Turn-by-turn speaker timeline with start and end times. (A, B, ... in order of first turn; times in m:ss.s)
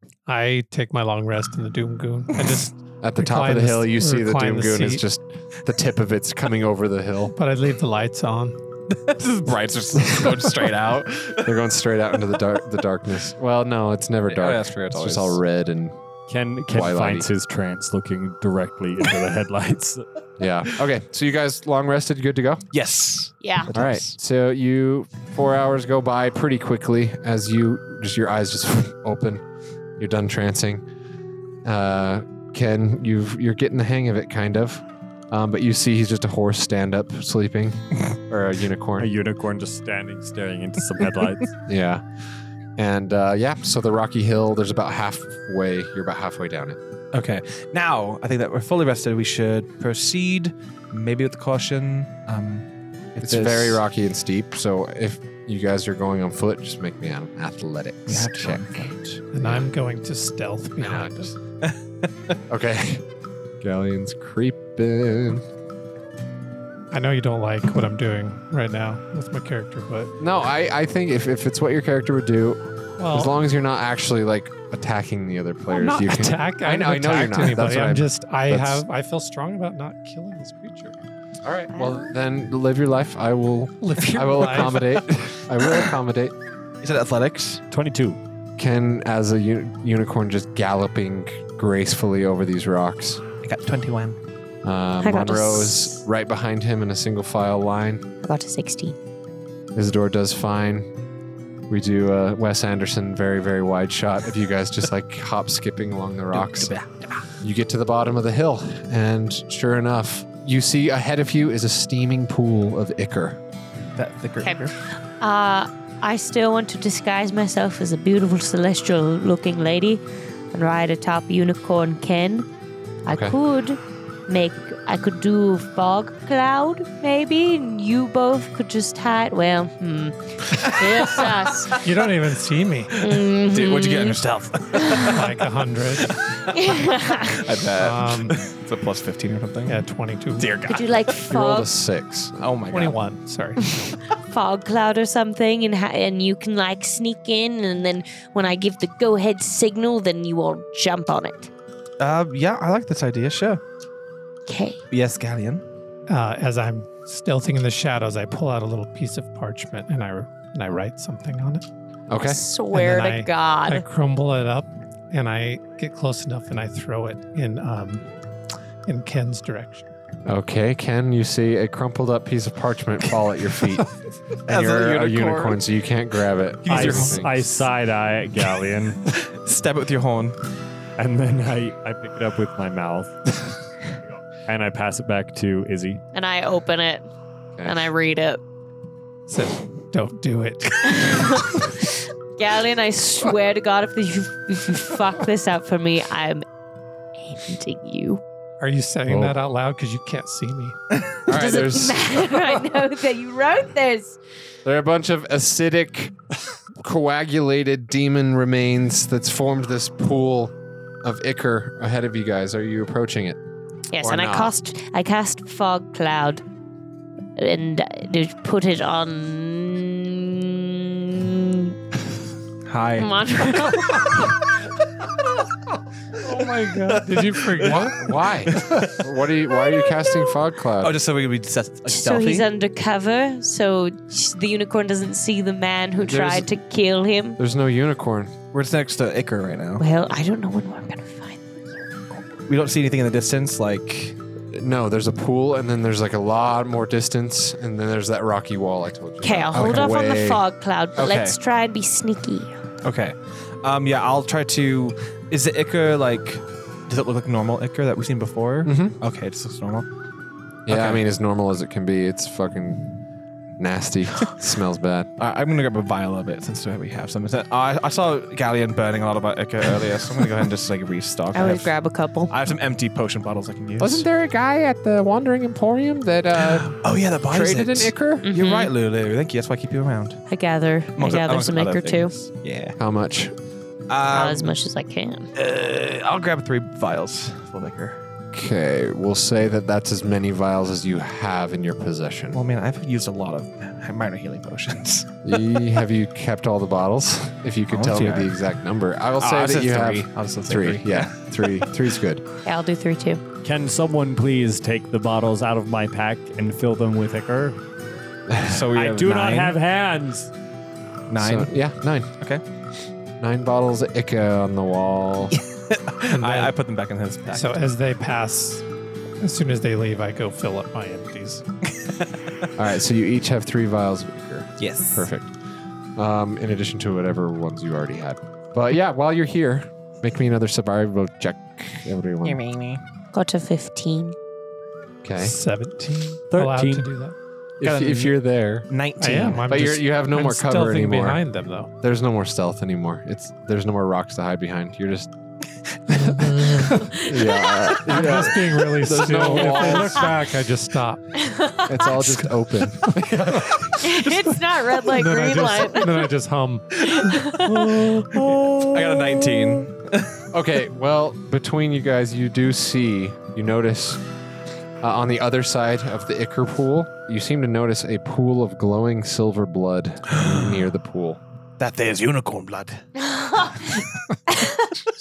0:00.3-0:05.0 A
0:03.0-0:07.3 B
0:07.3-0:08.6 A
0:08.9-0:11.5 C
0:10.0-0:16.0 B
0:14.3-0:15.4 C
0:16.3-0:20.0 D
0:16.7-0:17.3 B
0:20.4-0:22.6 B
0:22.7-0:24.1 C
0:23.4-0:23.7 E
0:23.7-0:29.4 B
0:30.0-0:30.8 B
0:31.6-0:39.1 B
0:39.0-0:41.6 D
0:41.7-0:42.0 B
0:42.8-0:46.8 B
0:47.1-0:53.8 C
0:53.2-0:58.8 B
0:58.1-0:59.2 C
0:59.3-1:01.3 A
0:59.4-0:59.7 B
1:00.8-1:01.3 B
1:01.6-1:02.4 C
1:02.5-1:03.0 B
1:03.6-1:05.4 B
1:06.9-1:10.1 A
1:10.2-1:18.8 B
1:13.0-1:13.3 A
1:15.7-1:20.9 A
1:21.4-1:26.4 B
1:21.7-1:22.1 E
1:23.8-1:24.9 A
1:26.8-1:27.6 C
1:27.7-1:28.2 D
1:28.6-1:33.2 B
1:33.4-1:34.2 C
1:34.6-1:38.1 B
1:35.0-1:36.0 E
1:38.2-1:39.0 E
1:39.7-1:40.9 B
1:41.7-1:46.7 B
1:46.3-1:47.3 C
1:47.4-1:53.4 B
1:54.0-1:54.8 C
1:54.4-2:02.5 E
2:03.0-2:11.8 E
2:03.1-2:03.4 B
2:10.6-2:12.0 C
2:11.8-2:13.0 A
2:13.0-2:14.2 E
2:13.0-2:19.8 C
2:14.8-2:15.1 E
2:15.0-2:16.2 A
2:16.5-2:17.4 E
2:17.8-2:18.4 A
2:19.7-2:20.6 A
2:20.4-2:21.1 C
2:20.7-2:21.7 E
2:21.3-2:22.4 B
2:22.4-2:23.0 C
2:22.7-2:23.8 A
2:23.8-2:31.5 E
2:32.0-2:33.6 C
2:34.5-2:34.8 E
2:34.9-2:35.6 C
2:36.1-2:41.6 A
2:42.1-2:42.4 B
2:42.2-2:43.8 E
2:42.7-2:48.1 A
2:48.9-2:49.9 A
2:50.3-2:53.9 B
2:54.5-2:57.5 B
2:54.5-2:55.6 C
2:56.6-2:57.3 C
2:56.7-2:59.0 D
2:59.1-3:00.4 C
3:01.0-3:03.4 D
3:04.4-3:06.0 D
3:06.1-3:07.1 E
3:07.6-3:08.4 E
3:09.3-3:11.4 A
3:10.8-3:16.4 E
3:17.2-3:18.2 E
3:18.6-3:20.8 A
3:19.1-3:19.4 B
3:21.3-3:22.3 B
3:21.3-3:24.2 E
3:24.6-3:26.2 B
3:26.8-3:33.4 B
3:33.9-3:36.4 E
3:34.0-3:34.5 B
3:37.4-3:41.8 E
3:42.7-3:43.1 C
3:43.0-3:44.4 E
3:46.2-3:48.0 A
3:46.9-3:49.1 C
3:47.6-3:51.0 B
3:50.8-3:52.5 C
3:51.9-3:57.4 E
3:56.0-3:56.5 B
3:57.4-3:58.4 B
3:58.5-3:59.8 C
3:59.8-4:01.9 E
4:02.5-4:04.2 C
4:04.5-4:10.4 B
4:09.2-4:12.5 E
4:09.6-4:09.8 C
4:11.0-4:11.4 C
4:12.8-4:19.9 C
4:18.6-4:19.0 B
4:20.7-4:23.0 B
4:20.7-4:21.0 C
4:23.6-4:25.1 B
4:25.2-4:31.7 C
4:31.3-4:32.3 E
4:32.3-4:34.1 C
4:33.8-4:38.3 B
4:36.4-4:40.2 C
4:38.2-4:38.7 E
4:40.3-4:42.2 E
4:41.0-4:42.8 C
4:42.8-4:43.3 B
4:43.9-4:44.5 C
4:44.1-4:45.3 E
4:45.4-4:48.0 C
4:48.3-4:52.4 B
4:52.3-4:55.2 C
4:55.2-5:02.2 B
4:57.7-4:58.3 C
4:59.2-5:01.6 C
5:02.4-5:03.2 E
5:03.4-5:07.6 D
5:08.3-5:08.7 B
5:08.4-5:09.6 C
5:08.7-5:10.3 D
5:11.1-5:11.5 C
5:11.1-5:12.1 B
5:13.2-5:15.4 B
5:15.3-5:17.6 C
5:16.1-5:16.5 A
5:17.3-5:18.6 A
5:19.2-5:21.4 A
5:21.8-5:22.2 C
5:22.6-5:25.3 B
5:24.6-5:25.1 C
5:26.0-5:32.4 B
5:32.2-5:32.8 C
5:33.1-5:34.2 E
5:35.0-5:35.4 B
5:35.2-5:37.2 A
5:36.3-5:36.9 D
5:37.6-5:38.7 B
5:37.6-5:38.2 C
5:38.7-5:39.7 C
5:39.0-5:41.7 A
5:39.3-5:41.2 B
5:41.8-5:45.1 B
5:45.9-5:46.8 C
5:46.5-5:47.0 A
5:46.8-5:47.5 E
5:47.0-5:50.1 B
5:47.8-5:51.2 A
5:51.2-5:51.9 E
5:51.7-5:53.9 B
5:53.8-5:56.1 E
5:54.8-5:58.5 A
5:56.8-5:59.6 E
5:58.4-6:00.2 C
6:00.3-6:04.0 B
6:04.8-6:11.2 B
6:10.1-6:10.4 C
6:11.6-6:12.8 C
6:13.0-6:14.7 E